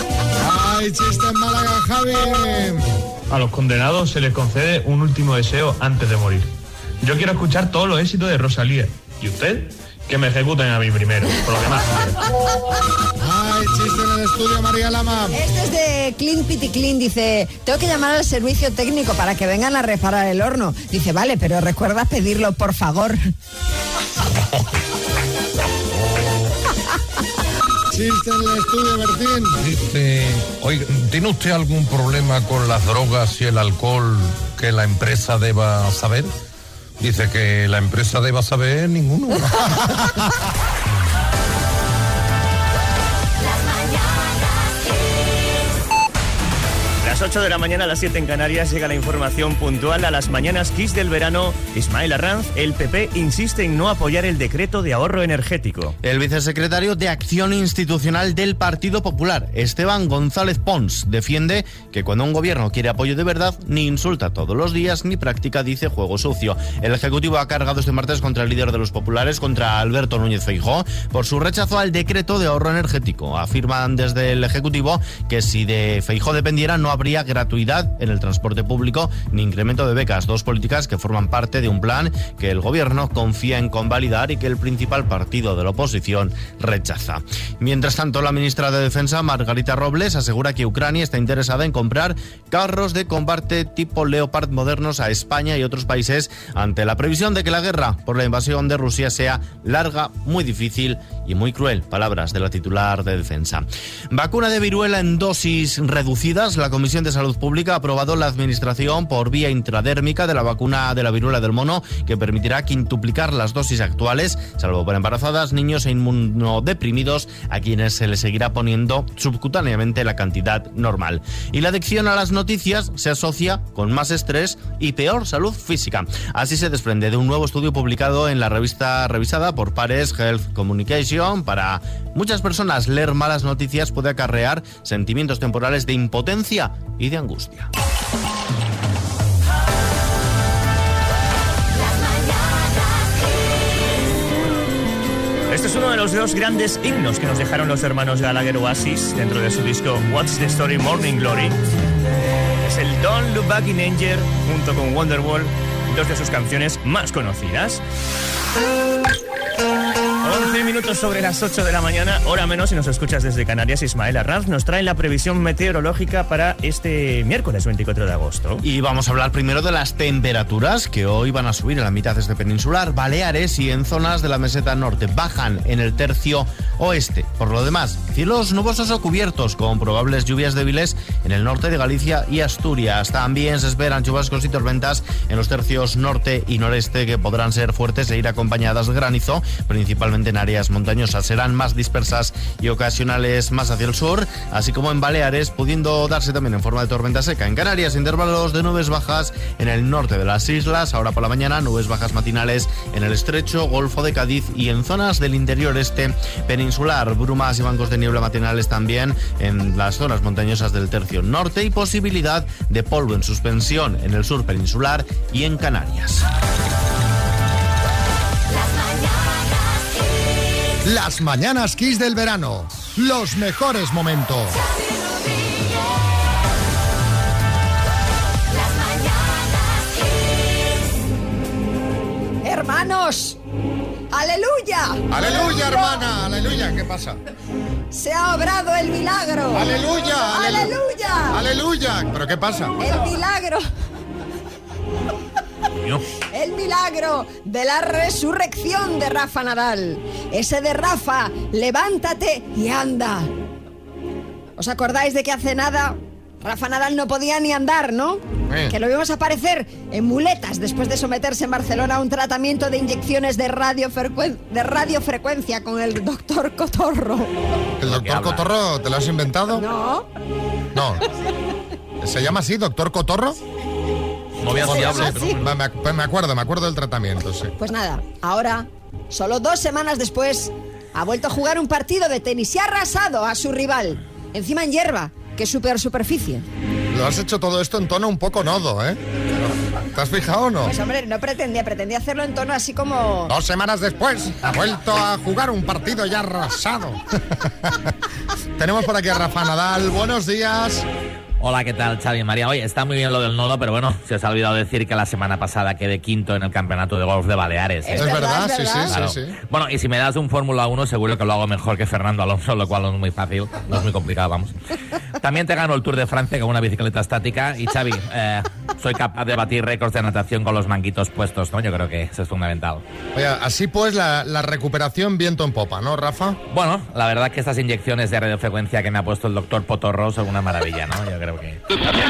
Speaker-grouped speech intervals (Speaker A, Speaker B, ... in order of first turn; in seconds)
Speaker A: 0.4-2.9, 13.2-15.4, 27.9-29.6, 220.8-224.6, 235.1-237.2, 239.5-240.8, 241.3-242.8, 258.5-258.7, 267.8-269.6, 270.7-271.0, 272.0-273.4, 274.7-277.5, 286.9-289.0, 289.7-290.7, 293.3-297.9, 298.6-300.9, 307.9-309.3, 323.1-326.4
Speaker B: 3.3-12.2
Speaker C: 15.3-23.3, 232.4-233.4, 234.1-235.8, 237.9-241.4, 242.8-243.6, 246.3-253.3, 254.6-267.3, 269.6-270.1, 274.5-275.4, 277.6-286.4, 290.6-293.3, 307.8-308.9
Speaker D: 29.6-36.3, 37.0-40.3
Speaker E: 47.0-56.0, 145.5-151.6, 152.6-157.8, 160.2-168.6
Speaker F: 56.0-137.7, 168.6-216.2
Speaker G: 267.8-268.4, 274.4-275.5, 301.4-308.1, 308.9-314.5, 315.2-322.8, 326.5-331.6